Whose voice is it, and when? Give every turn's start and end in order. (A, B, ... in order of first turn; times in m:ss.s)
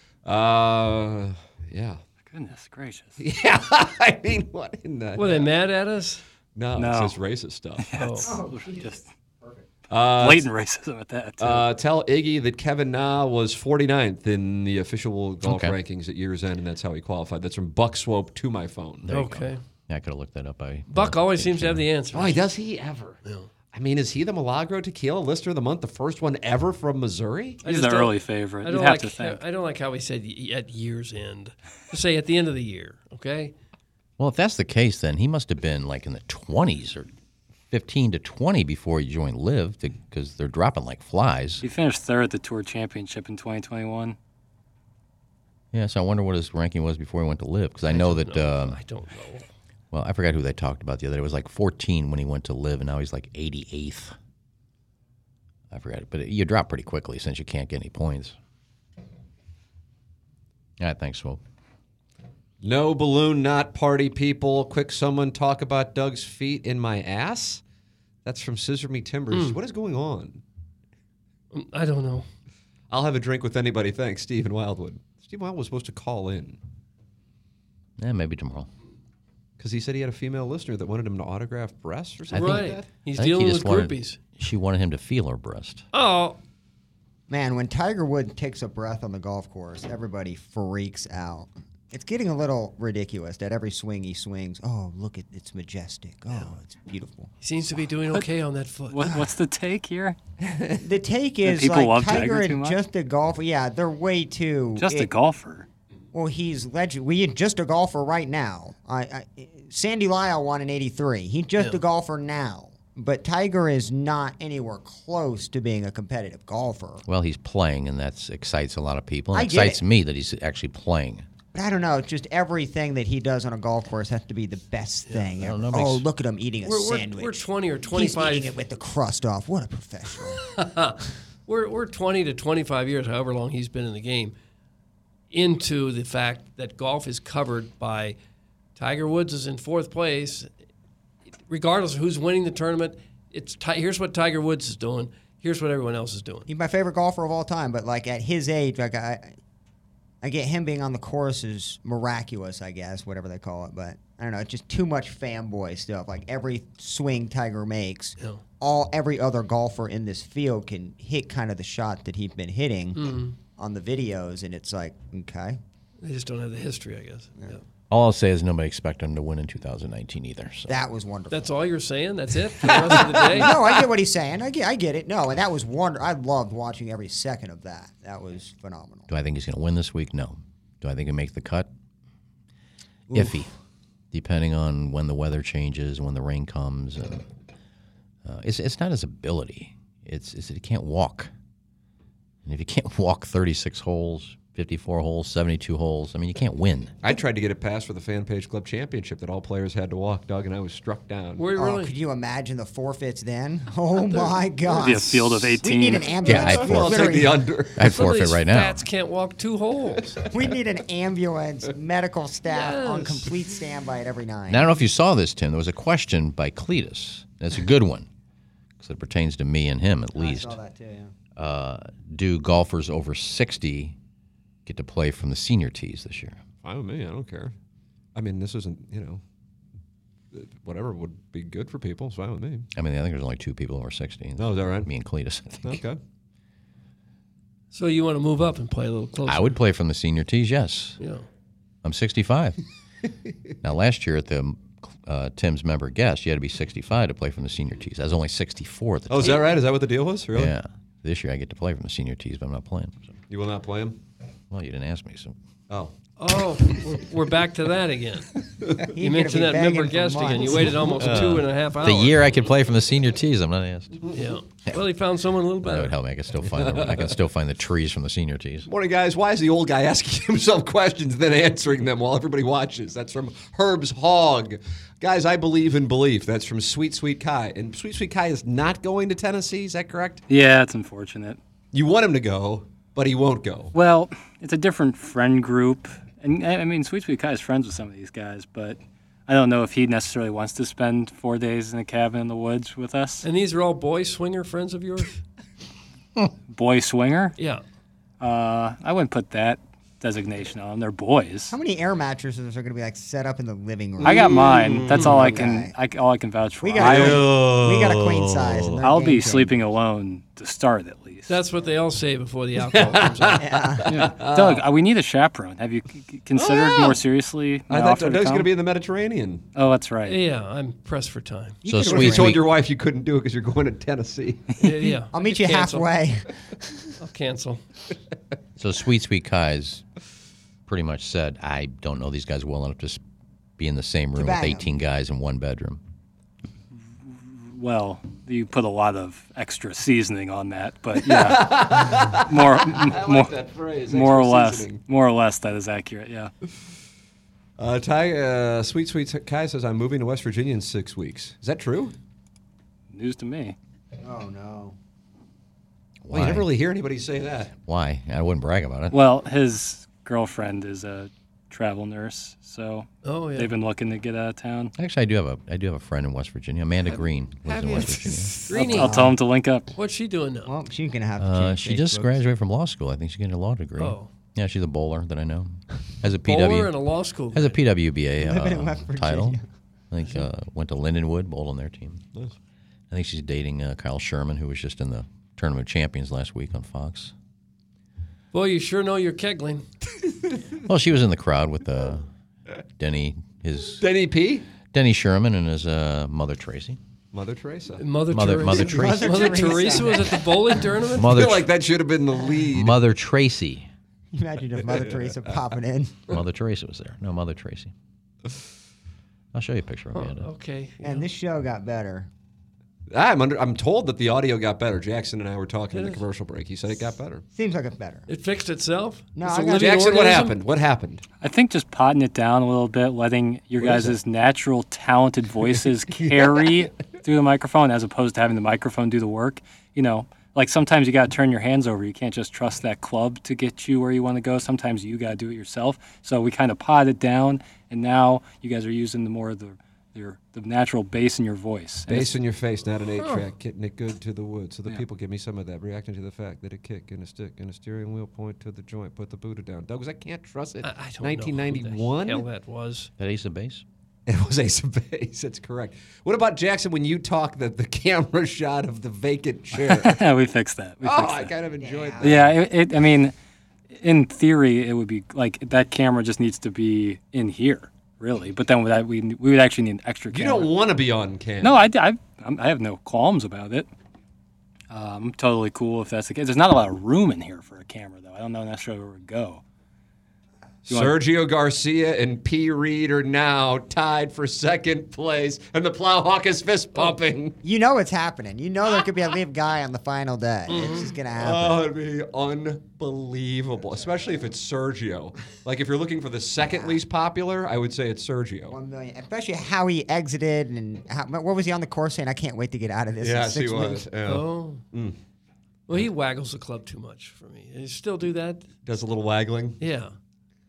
0:00.2-0:02.0 A
0:02.3-0:03.2 B
0:03.2-0:05.5 A
0:05.2-0:06.2 C
0:06.5-0:07.8 A
0:06.8-0:07.2 B
0:07.8-0:09.0 B
0:08.0-0:08.4 C
0:08.2-0:09.6 D
0:09.9-0:10.4 A
0:10.0-0:11.7 B
0:11.4-0:19.1 A
0:15.4-0:15.8 E
0:19.0-0:21.8 E
0:19.1-0:19.6 C
0:20.9-0:22.4 C
0:22.1-0:23.2 A
0:23.7-0:27.6 A
0:27.6-0:33.5 C
0:27.6-0:29.4 B
0:34.2-0:37.1 E
0:37.7-0:41.6 E
0:41.6-0:44.2 B
0:45.7-0:48.8 E
0:47.9-0:49.5 C
0:49.9-0:54.2 E
0:55.7-0:58.4 E
1:00.8-1:01.4 E
1:02.6-1:07.6 A
1:08.2-1:10.4 A
1:09.3-1:09.6 C
1:11.5-1:12.3 C
1:12.9-1:16.6 A
1:18.0-1:18.7 E
1:19.6-1:22.9 A
1:22.3-1:22.6 E
1:22.3-1:24.2 C
1:23.1-1:25.8 E
1:25.9-1:26.4 C
1:27.3-1:37.3 D
1:37.4-1:39.3 C
1:38.9-1:40.2 B
1:40.4-1:40.8 A
1:40.8-1:45.1 D
1:41.4-1:42.8 B
1:44.8-1:45.7 B
1:46.1-1:57.0 D
1:51.6-1:51.8 C
1:57.1-2:01.2 E
1:59.3-1:59.8 D
2:01.5-2:10.4 D
2:05.4-2:06.0 E
2:06.6-2:08.6 C
2:10.4-2:14.4 C
2:15.3-2:18.2 C
2:18.8-2:20.5 C
2:21.5-2:26.5 C
2:26.5-2:29.3 D
2:30.2-2:45.6 D
2:43.0-2:43.3 C
2:46.0-2:47.6 C
2:47.9-2:50.8 E
2:50.7-2:51.6 D
2:51.3-2:53.6 C
2:52.7-2:59.1 D
2:59.1-3:01.7 E
3:03.1-3:03.4 D
3:03.1-3:03.5 E
3:04.1-3:07.2 E
3:08.2-3:11.3 E
3:12.4-3:17.0 E
3:17.0-3:21.5 A
3:21.4-3:21.9 C
3:21.6-3:27.4 D
3:24.0-3:24.4 C
3:24.7-3:26.2 B
3:26.2-3:27.2 E
3:26.3-3:27.9 A
3:27.8-3:28.8 E
3:27.8-3:30.3 C
3:30.3-3:34.6 D
3:32.5-3:33.3 C
3:34.5-3:38.1 E
3:38.8-3:40.6 E
3:40.2-3:41.1 D
3:41.4-3:44.0 E
3:44.6-3:46.4 E
3:46.6-3:47.5 A
3:48.1-3:49.2 A
3:50.3-3:52.7 A
3:52.7-3:55.8 E
3:54.4-3:54.9 A
3:55.6-3:56.0 A
3:57.7-3:59.6 C
3:59.2-4:01.0 E
4:01.0-4:01.2 C
4:01.8-4:02.6 E
4:03.6-4:09.4 E
4:09.1-4:10.5 A
4:10.3-4:13.1 E
4:13.3-4:14.0 A
4:14.5-4:15.3 E
4:16.2-4:18.3 C
4:18.9-4:21.4 D
4:19.0-4:22.2 C
4:21.0-4:24.0 E
4:24.1-4:26.0 C
4:25.6-4:28.7 E
4:26.6-4:27.1 A
4:28.6-4:40.2 A
4:40.3-4:41.4 B
4:41.7-4:43.7 A
4:43.7-4:53.2 B
4:53.2-4:55.2 C
4:56.5-4:57.4 B
4:57.4-4:57.6 C
4:58.2-5:01.6 B
5:01.5-5:04.4 D
5:04.0-5:05.4 A
5:04.0-5:07.2 B
5:05.0-5:05.7 D
5:06.6-5:09.5 D
5:06.8-5:08.8 A
5:08.8-5:11.4 B
5:11.3-5:13.4 C
5:12.7-5:14.6 A
5:13.4-5:13.8 D
5:13.9-5:18.5 B
5:16.3-5:17.0 A
5:17.7-5:19.4 A
5:19.5-5:20.2 B
5:20.0-5:21.6 C
5:21.6-5:22.4 D
5:21.6-5:22.4 E
5:21.8-5:24.5 A
5:24.6-5:25.0 B
5:24.6-5:25.9 C
5:25.1-5:26.6 D
5:27.0-5:27.6 C
5:28.6-5:29.8 E
5:30.7-5:33.0 E
5:33.6-5:35.8 E
5:34.2-5:34.7 D
5:37.1-5:43.3 B
5:41.0-5:44.8 A
5:43.9-5:46.3 B
5:47.6-5:51.9 A
5:52.9-5:53.6 B
5:54.0-5:54.8 D
5:56.0-5:56.5 E
5:56.1-5:57.5 A
5:57.6-5:59.0 E
5:58.9-6:04.7 B
6:03.0-6:03.5 C
6:04.8-6:08.3 E
6:06.8-6:09.1 C
6:08.5-6:09.2 D
6:08.5-6:09.7 B
6:09.7-6:10.5 C
6:10.4-6:12.2 D
6:11.2-6:16.8 E
6:13.8-6:14.1 C
6:16.2-6:17.6 C
6:17.3-6:22.0 E
6:18.2-6:19.4 D
6:22.9-6:27.1 E
6:28.3-6:29.6 C
6:30.6-6:32.1 E
6:32.8-6:33.8 E
6:33.8-6:34.4 A
6:34.7-6:36.8 E
6:37.1-6:37.8 A
6:37.8-6:41.2 C
6:38.1-6:39.3 E
6:38.4-6:40.4 D
6:40.9-6:41.5 E
6:41.0-6:42.8 A
6:42.5-6:43.7 E
6:44.1-6:46.2 D
6:46.1-6:47.7 E
6:49.3-6:50.3 E
6:49.9-6:51.0 C
6:50.8-6:52.1 D
6:52.9-6:57.2 A
6:55.7-6:56.0 C
6:57.3-6:58.1 D
6:58.1-7:00.4 C
6:59.2-7:00.1 D
6:59.5-7:01.0 A
7:01.2-7:22.2 B
7:03.6-7:03.9 A
7:05.9-7:06.4 A
7:21.9-7:32.2 A
7:23.0-7:23.3 C
7:30.6-7:32.9 C
7:33.0-7:33.6 E
7:34.1-7:40.0 A
7:39.6-7:41.3 B
7:40.8-7:42.3 A
7:41.6-7:42.1 D
7:42.0-7:43.1 B
7:43.8-7:50.5 B
7:50.1-7:51.6 A
7:51.4-7:53.7 B
7:54.7-7:59.4 B
8:00.7-8:01.0 B
8:00.7-8:07.4 A
8:07.4-8:11.6 D
8:10.5-8:10.9 C
8:11.2-8:18.6 A
8:16.4-8:16.8 D
8:18.5-8:23.9 D
8:23.0-8:25.0 A
8:24.0-8:24.6 C
8:25.7-8:28.5 C
8:28.6-8:29.6 A
8:29.6-8:30.0 C